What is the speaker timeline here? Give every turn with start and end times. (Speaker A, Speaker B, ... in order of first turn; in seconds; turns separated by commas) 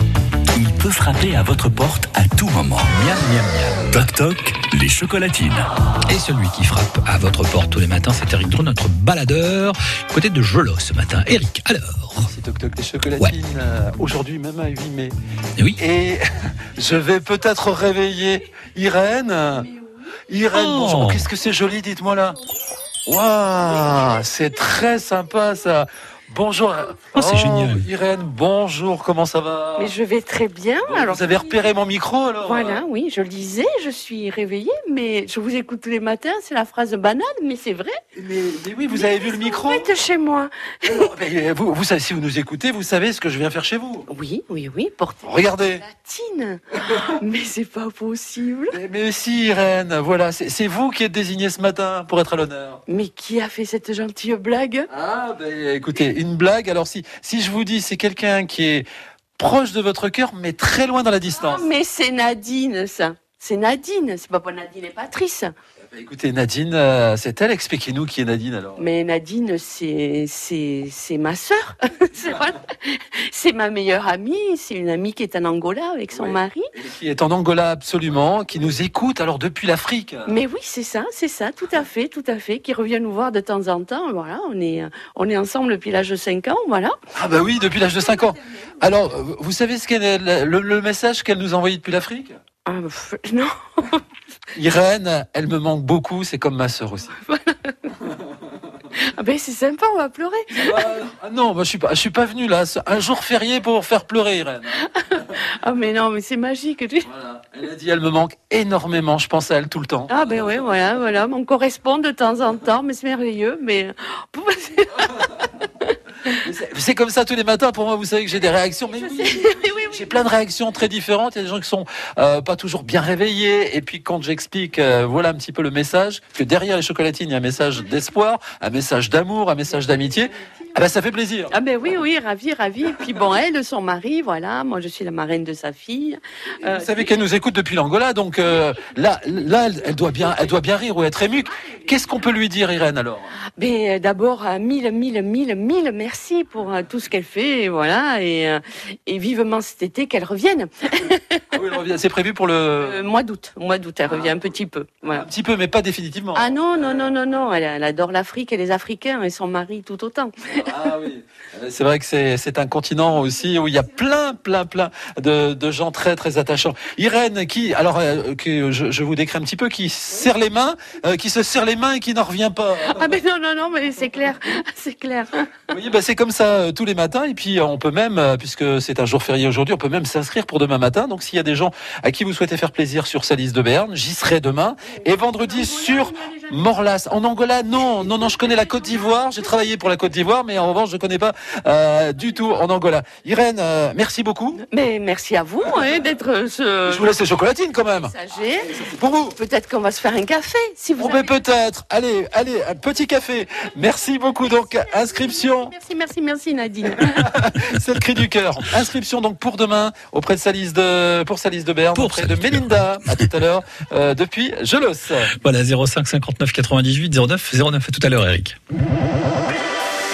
Speaker A: 0.5-2.9, Speaker B: 2.9-4.1, Speaker A: 3.9-5.7, Speaker B: 6.1-12.3, Speaker C: 12.2-15.2, Speaker C: 15.8-16.2, Speaker C: 16.8-19.7, Speaker C: 20.3-22.4, Speaker B: 20.5-21.3, Speaker C: 23.1-30.0, Speaker B: 27.1-27.9, Speaker D: 29.8-31.5, Speaker C: 30.8-32.8, Speaker D: 32.4-38.0, Speaker C: 38.1-39.9, Speaker D: 38.9-41.1, Speaker C: 40.8-44.1, Speaker D: 44.1-48.8, Speaker C: 45.2-45.8, Speaker C: 48.7-52.8, Speaker D: 52.9-54.9, Speaker C: 54.9-58.9, Speaker C: 59.4-61.7, Speaker D: 61.4-65.5, Speaker C: 65.9-68.9, Speaker D: 68.8-76.7, Speaker C: 76.1-80.4, Speaker D: 80.3-87.0, Speaker C: 87.1-92.4, Speaker D: 92.7-94.0, Speaker C: 94.5-97.2, Speaker D: 97.2-97.9, Speaker D: 98.9-100.9, Speaker C: 100.5-105.4, Speaker D: 104.9-107.1, Speaker C: 107.0-110.8, Speaker D: 110.1-115.5, Speaker C: 116.3-131.6, Speaker D: 119.0-120.2, Speaker D: 131.5-137.1, Speaker C: 136.6-143.3, Speaker D: 143.6-151.4, Speaker C: 151.5-153.1, Speaker D: 152.8-155.3, Speaker C: 154.0-154.5, Speaker C: 155.1-157.2, Speaker D: 156.3-160.7, Speaker C: 160.5-173.2, Speaker D: 172.8-175.5, Speaker C: 175.7-194.6, Speaker D: 185.4-186.6, Speaker D: 194.7-197.2, Speaker C: 196.8-198.1, Speaker D: 198.0-201.4, Speaker C: 198.7-199.4, Speaker C: 201.0-205.7, Speaker D: 204.9-207.3, Speaker C: 206.9-215.3, Speaker B: 211.9-213.0, Speaker B: 215.4-218.6